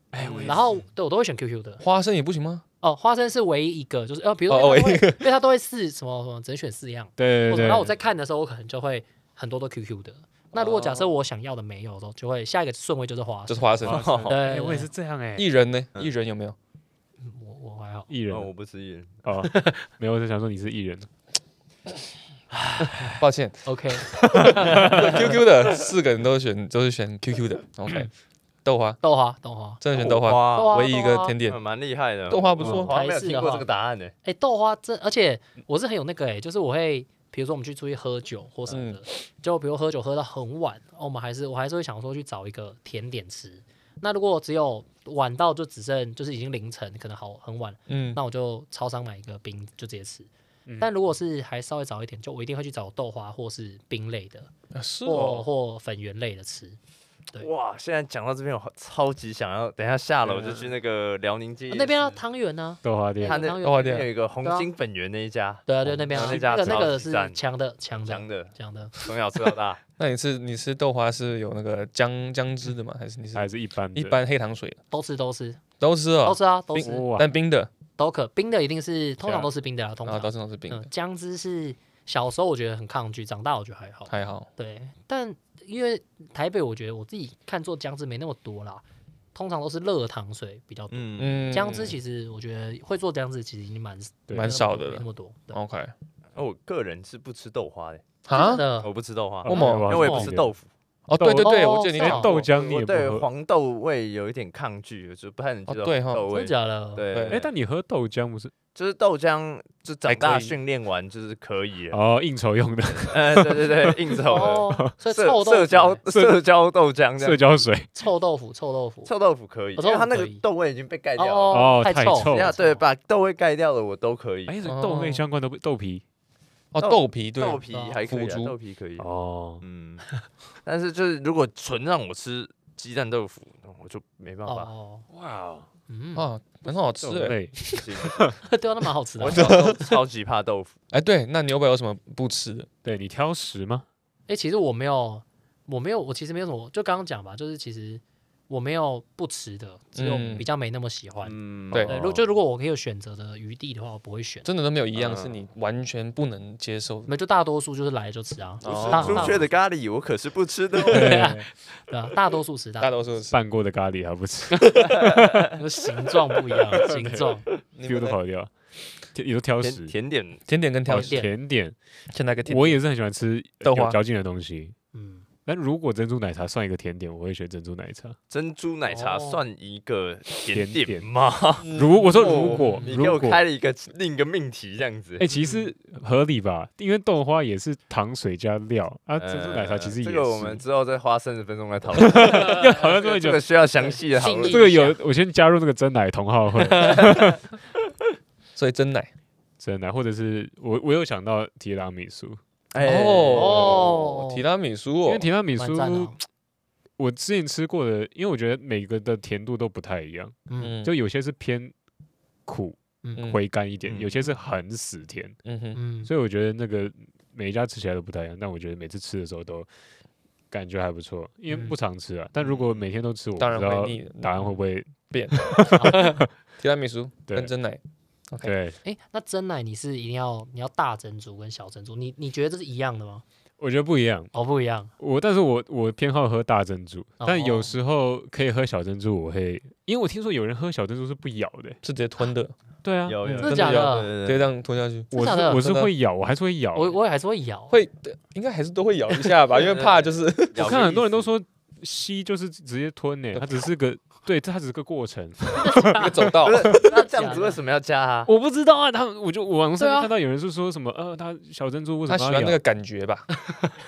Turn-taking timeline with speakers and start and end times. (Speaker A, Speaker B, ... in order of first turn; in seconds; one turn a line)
Speaker A: 0.1-0.8
Speaker B: 0.2-0.8
Speaker C: 0.3-1.8
Speaker D: 1.8-2.6
Speaker C: 2.8-14.9
Speaker D: 4.5-5.2
Speaker A: 7.2-7.9
Speaker B: 10.5-11.1
Speaker D: 13.5-14.2
Speaker A: 13.8-15.5
Speaker B: 13.8-14.4
Speaker D: 15.4-16.6
Speaker C: 17.2-18.1
Speaker A: 18.1-18.5
Speaker B: 18.3-19.2
Speaker A: 19.2-21.1
Speaker C: 19.5-19.8
Speaker B: 22.5-23.2
Speaker C: 22.9-25.4
Speaker D: 23.2-23.7
Speaker A: 24.4-25.1
Speaker D: 24.4-28.1
Speaker D: 28.6-29.0
Speaker C: 29.0-29.8
Speaker D: 29.8-31.6
Speaker B: 29.9-30.8
Speaker C: 30.4-31.3
Speaker B: 31.4-34.1
Speaker D: 32.3-32.9
Speaker C: 32.6-33.7
Speaker C: 34.2-54.5
Speaker D: 38.7-39.0
Speaker D: 47.9-48.2
Speaker A: 50.6-50.9
Speaker D: 54.7-55.5
Speaker C: 55.0-56.8
Speaker B: 57.4-62.2
Speaker C: 61.7-64.7
Speaker A: 62.8-63.4
Speaker B: 63.2-67.4
Speaker D: 63.6-64.1
Speaker C: 65.7-69.0
Speaker D: 66.1-66.8
Speaker B: 68.0-69.8
Speaker D: 70.0-74.8
Speaker A: 73.3-74.2
Speaker C: 74.9-75.6
Speaker D: 75.8-77.7
Speaker C: 76.2-77.1
Speaker A: 76.7-77.3
Speaker C: 78.0-88.8
Speaker D: 79.2-79.5
Speaker D: 80.0-80.9
Speaker D: 84.1-84.5
Speaker C: 89.3-95.6
Speaker B: 90.9-91.5
Speaker D: 91.2-92.0
Speaker D: 94.3-95.9
Speaker B: 96.3-98.0
Speaker D: 98.3-98.6
Speaker C: 98.3-98.9
Speaker B: 98.8-100.7
Speaker A: 99.4-100.5
Speaker D: 99.5-99.9
Speaker C: 99.5-100.3
Speaker D: 101.1-102.4
Speaker A: 101.2-103.2
Speaker C: 101.4-102.3
Speaker B: 102.2-107.5
Speaker D: 105.7-106.2
Speaker C: 106.3-107.0
Speaker D: 107.1-107.5
Speaker A: 107.3-108.5
Speaker B: 108.7-112.0
Speaker D: 110.0-110.5
Speaker A: 111.9-114.9
Speaker B: 113.1-117.5
Speaker C: 114.3-116.0
Speaker A: 116.1-116.4
Speaker A: 117.2-117.9
Speaker C: 117.9-119.1
Speaker B: 119.0-124.5
Speaker C: 119.8-120.4
Speaker C: 121.2-122.8
Speaker A: 121.5-122.5
Speaker A: 124.5-126.0
Speaker D: 124.6-125.2
Speaker D: 126.7-128.5
Speaker B: 126.8-129.1
Speaker C: 127.7-128.0
Speaker A: 129.0-129.6
Speaker B: 129.6-130.0
Speaker B: 130.6-134.7
Speaker C: 134.5-135.1
Speaker A: 135.1-135.6
Speaker C: 135.9-136.2
Speaker D: 136.2-137.8
Speaker A: 137.0-137.7
Speaker B: 137.7-138.3
Speaker C: 138.5-139.7
Speaker B: 139.2-140.7
Speaker D: 139.3-139.9
Speaker D: 140.9-142.7
Speaker A: 142.8-143.8
Speaker C: 144.3-154.5
Speaker D: 149.9-150.5
Speaker A: 151.2-152.2
Speaker D: 154.4-157.1
Speaker B: 155.0-155.3
Speaker C: 157.1-159.4
Speaker D: 158.6-159.4
Speaker B: 158.7-161.3
Speaker C: 160.8-162.9
Speaker A: 160.8-161.5
Speaker D: 162.8-163.4
Speaker A: 163.3-165.5
Speaker B: 164.9-165.4
Speaker C: 165.5-167.4
Speaker A: 166.7-168.5
Speaker D: 167.7-168.2
Speaker A: 169.1-169.9
Speaker B: 169.6-170.4
Speaker D: 170.5-171.3
Speaker A: 170.8-171.8
Speaker C: 170.9-171.3
Speaker D: 172.1-172.8
Speaker A: 172.5-174.7
Speaker D: 173.6-174.0
Speaker C: 174.9-175.2
Speaker A: 175.4-178.2
Speaker B: 178.3-185.2
Speaker C: 178.9-179.4
Speaker A: 180.5-181.1
Speaker A: 181.7-183.4
Speaker C: 182.6-183.1
Speaker A: 185.2-190.6
Speaker C: 185.3-185.7
Speaker B: 189.2-194.7
Speaker A: 191.9-193.4
Speaker C: 194.1-195.0
Speaker A: 194.4-197.4
Speaker C: 196.6-197.3
Speaker B: 196.7-197.0
Speaker D: 198.6-199.1
Speaker A: 199.6-202.4
Speaker B: 202.7-203.9
Speaker D: 202.8-205.3
Speaker C: 203.3-204.4
Speaker A: 205.1-206.1
Speaker C: 205.6-206.2
Speaker A: 207.0-211.7
Speaker D: 210.6-210.9
Speaker A: 212.4-215.4
Speaker C: 213.0-213.3
Speaker B: 213.8-214.2
Speaker D: 215.4-215.8
Speaker C: 215.8-216.1
Speaker A: 216.0-219.7
Speaker A: 220.5-226.3
Speaker C: 221.5-221.8
Speaker B: 222.4-222.8
Speaker D: 223.4-224.5
Speaker D: 225.1-225.9
Speaker C: 225.7-226.2
Speaker D: 226.6-228.5
Speaker A: 228.4-228.8
Speaker C: 228.8-233.2
Speaker A: 233.6-234.3
Speaker C: 234.3-234.9
Speaker A: 235.0-241.8
Speaker C: 237.2-237.7
Speaker D: 241.8-242.5
Speaker A: 242.8-243.4
Speaker B: 243.1-244.5
Speaker D: 243.4-245.9
Speaker C: 243.4-244.1
Speaker C: 245.1-245.7
Speaker A: 245.1-247.0
Speaker C: 246.7-247.7
Speaker D: 247.7-250.8
Speaker B: 249.6-251.3
Speaker A: 250.6-256.9
Speaker C: 255.6-257.6
Speaker D: 256.0-256.8
Speaker B: 256.4-258.3
Speaker A: 258.2-262.6
Speaker C: 259.8-260.1
Speaker D: 262.1-263.3